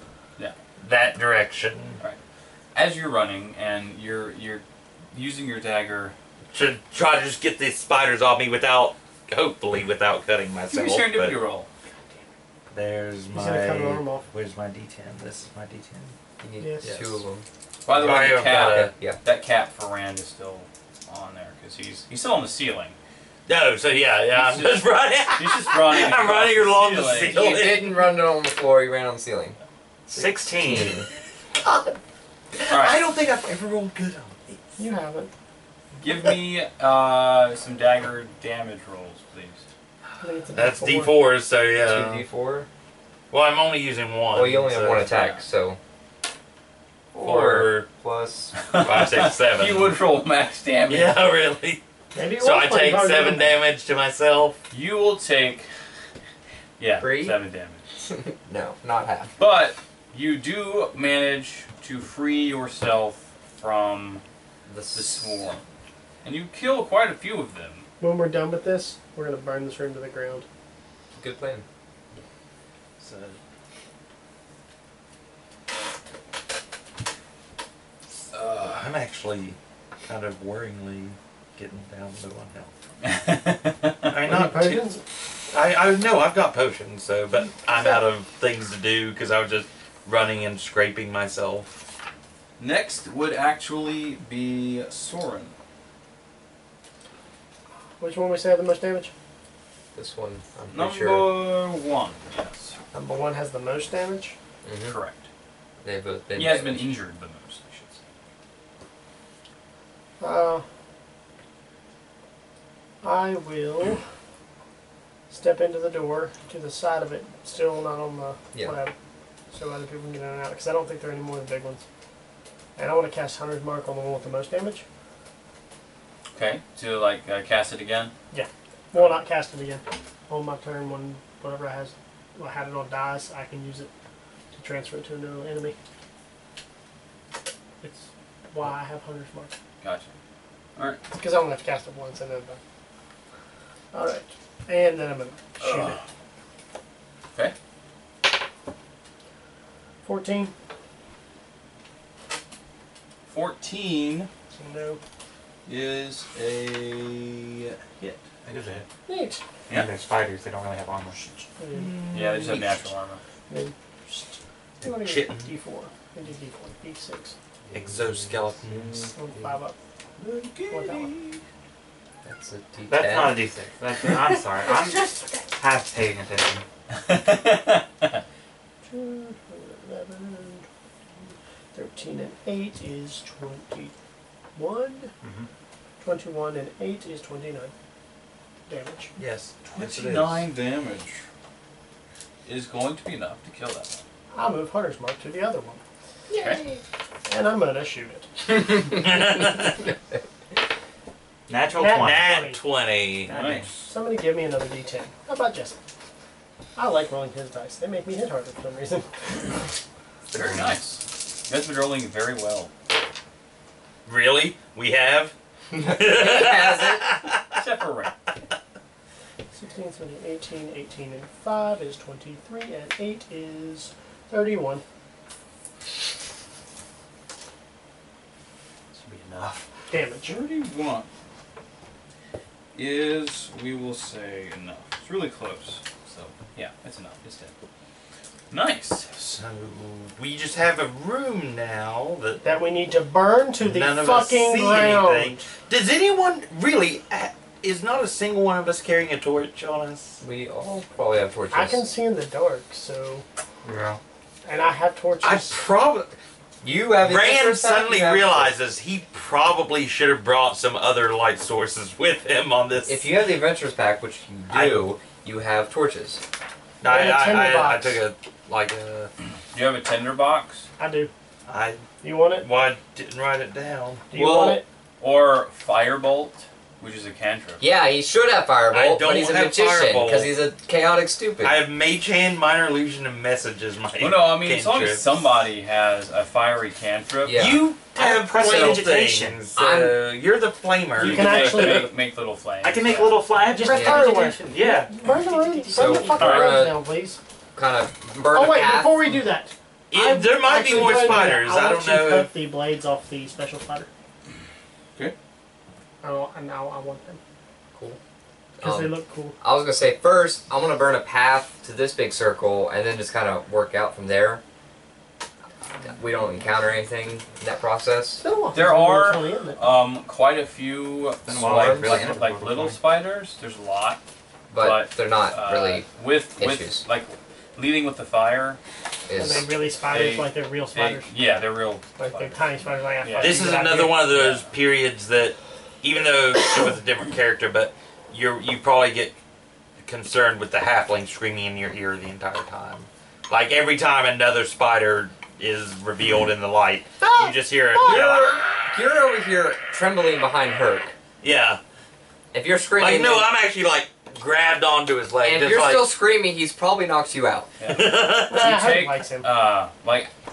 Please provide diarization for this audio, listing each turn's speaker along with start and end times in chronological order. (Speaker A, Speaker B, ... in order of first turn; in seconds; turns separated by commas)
Speaker A: 0.8-2.0, Speaker B: 2.7-6.1, Speaker A: 6.5-11.4, Speaker B: 10.7-11.7, Speaker A: 12.7-16.1, Speaker C: 13.3-14.2, Speaker D: 16.4-17.4, Speaker C: 16.6-16.9, Speaker A: 16.8-17.2, Speaker B: 17.8-22.9, Speaker A: 17.9-18.9, Speaker D: 18.4-19.2, Speaker A: 23.5-28.0, Speaker B: 24.3-27.4, Speaker D: 27.3-29.6, Speaker A: 30.1-32.0, Speaker D: 30.1-31.1, Speaker A: 32.5-34.8, Speaker B: 32.7-33.0, Speaker C: 34.8-35.3, Speaker B: 36.0-39.6, Speaker C: 40.2-41.1, Speaker A: 40.5-42.2, Speaker D: 41.8-42.7, Speaker A: 43.3-45.3, Speaker D: 44.3-45.8, Speaker A: 47.1-47.9, Speaker D: 47.1-48.5, Speaker B: 48.6-51.2, Speaker A: 48.7-49.9, Speaker A: 50.9-51.8, Speaker C: 52.1-53.5, Speaker A: 52.4-54.6, Speaker B: 54.7-55.7, Speaker B: 56.8-57.8, Speaker D: 57.0-57.4, Speaker D: 58.0-59.3, Speaker B: 59.4-64.2, Speaker D: 64.7-65.5, Speaker B: 64.9-65.6, Speaker B: 66.2-67.9, Speaker C: 68.0-70.5, Speaker D: 71.1-71.6, Speaker A: 73.0-73.4, Speaker B: 78.3-78.9, Speaker A: 78.7-82.7, Speaker B: 83.0-84.1, Speaker A: 84.0-84.9, Speaker C: 84.2-85.0, Speaker A: 85.5-91.8, Speaker B: 92.6-95.5, Speaker C: 98.0-99.1, Speaker D: 99.9-101.3, Speaker B: 100.7-102.8, Speaker C: 102.9-104.3, Speaker D: 104.6-105.0, Speaker B: 104.8-105.2, Speaker D: 105.8-106.9, Speaker B: 106.3-108.0, Speaker C: 110.2-110.6, Speaker C: 113.0-114.0, Speaker C: 115.3-118.9, Speaker C: 119.5-121.8, Speaker C: 122.8-124.8, Speaker B: 126.3-128.1, Speaker C: 128.3-133.9, Speaker C: 134.5-135.7, Speaker C: 137.8-139.5, Speaker B: 139.8-140.1, Speaker C: 141.1-142.6, Speaker C: 143.9-146.0, Speaker B: 145.6-146.0, Speaker C: 150.0-150.5, Speaker B: 153.3-154.3, Speaker C: 154.5-155.0, Speaker B: 155.7-158.8, Speaker C: 159.1-159.4, Speaker B: 159.7-159.9, Speaker E: 159.7-160.7, Speaker A: 159.7-162.8, Speaker C: 161.6-162.0, Speaker B: 162.1-163.2, Speaker C: 163.5-167.3, Speaker A: 164.8-165.5, Speaker D: 167.7-169.5, Speaker A: 167.7-169.1, Speaker C: 168.9-169.8, Speaker B: 170.2-171.4, Speaker C: 170.7-171.1, Speaker D: 172.2-173.5, Speaker E: 172.9-176.6, Speaker A: 172.9-175.1, Speaker A: 175.6-176.4, Speaker B: 176.9-178.2, Speaker C: 178.8-180.7, Speaker C: 181.3-183.9, Speaker C: 184.5-185.1, Speaker C: 186.0-187.7, Speaker C: 188.7-189.1, Speaker A: 189.2-190.5, Speaker B: 189.6-191.2, Speaker B: 192.4-194.0, Speaker C: 194.3-198.3, Speaker B: 196.3-196.6, Speaker A: 198.8-199.9, Speaker A: 201.5-203.7, Speaker C: 201.8-202.6, Speaker B: 203.3-203.7, Speaker C: 203.5-205.8, Speaker C: 206.8-209.6, Speaker B: 210.3-212.7, Speaker A: 210.3-210.7, Speaker A: 214.0-217.6, Speaker D: 215.8-217.1, Speaker B: 217.5-218.1, Speaker C: 219.5-224.8, Speaker B: 228.9-231.1, Speaker C: 229.9-230.4, Speaker B: 232.7-237.5, Speaker B: 238.5-239.4, Speaker A: 239.3-242.4, Speaker C: 242.4-245.4, Speaker A: 243.6-250.2, Speaker D: 250.2-251.8, Speaker C: 251.5-253.2, Speaker A: 253.7-254.0, Speaker C: 254.4-255.6, Speaker A: 255.2-256.1, Speaker D: 256.6-258.5, Speaker A: 257.0-263.1, Speaker D: 262.9-266.2, Speaker A: 264.5-264.8, Speaker A: 266.8-269.1, Speaker C: 266.9-268.0, Speaker B: 269.5-270.7, Speaker C: 270.8-271.1, Speaker A: 271.5-271.8, Speaker C: 272.0-272.5, Speaker A: 272.4-274.1, Speaker C: 274.1-274.6, Speaker B: 274.1-277.6, Speaker D: 277.6-281.6, Speaker A: 278.7-280.3, Speaker A: 281.4-285.2, Speaker B: 284.0-287.4, Speaker D: 287.2-287.7, Speaker A: 287.3-291.6, Speaker E: 287.4-289.3, Speaker D: 288.3-288.9, Speaker D: 289.5-290.0, Speaker B: 291.0-293.3, Speaker C: 291.0-291.9, Speaker E: 292.6-295.6, Speaker C: 293.5-297.2, Speaker A: 293.6-294.8, Speaker D: 293.7-294.1, Speaker D: 295.7-296.8, Speaker B: 296.2-296.6, Speaker D: 297.5-299.1, Speaker C: 298.3-303.9, Speaker A: 299.9-302.3, Speaker C: 306.0-307.2, Speaker D: 307.7-308.0, Speaker D: 308.6-314.4, Speaker C: 308.6-309.4, Speaker D: 315.8-318.2, Speaker C: 318.2-319.6, Speaker B: 318.5-324.0, Speaker E: 321.3-322.6, Speaker D: 321.3-322.2, Speaker A: 321.4-322.7, Speaker D: 324.5-325.9, Speaker B: 324.5-328.6, Speaker D: 326.4-326.8, Speaker D: 329.1-329.5, Speaker C: 329.1-331.1, Speaker B: 329.9-332.5, Speaker C: 332.0-334.0, Speaker B: 333.0-333.4, Speaker A: 333.2-339.1, Speaker B: 334.1-334.5, Speaker A: 339.8-348.7, Speaker C: 347.0-348.0, Speaker D: 347.8-350.9, Speaker A: 351.2-351.6, Speaker D: 352.3-353.3, Speaker A: 352.8-355.9, Speaker D: 355.2-357.5, Speaker B: 357.6-360.1, Speaker A: 357.7-358.6, Speaker C: 358.3-359.3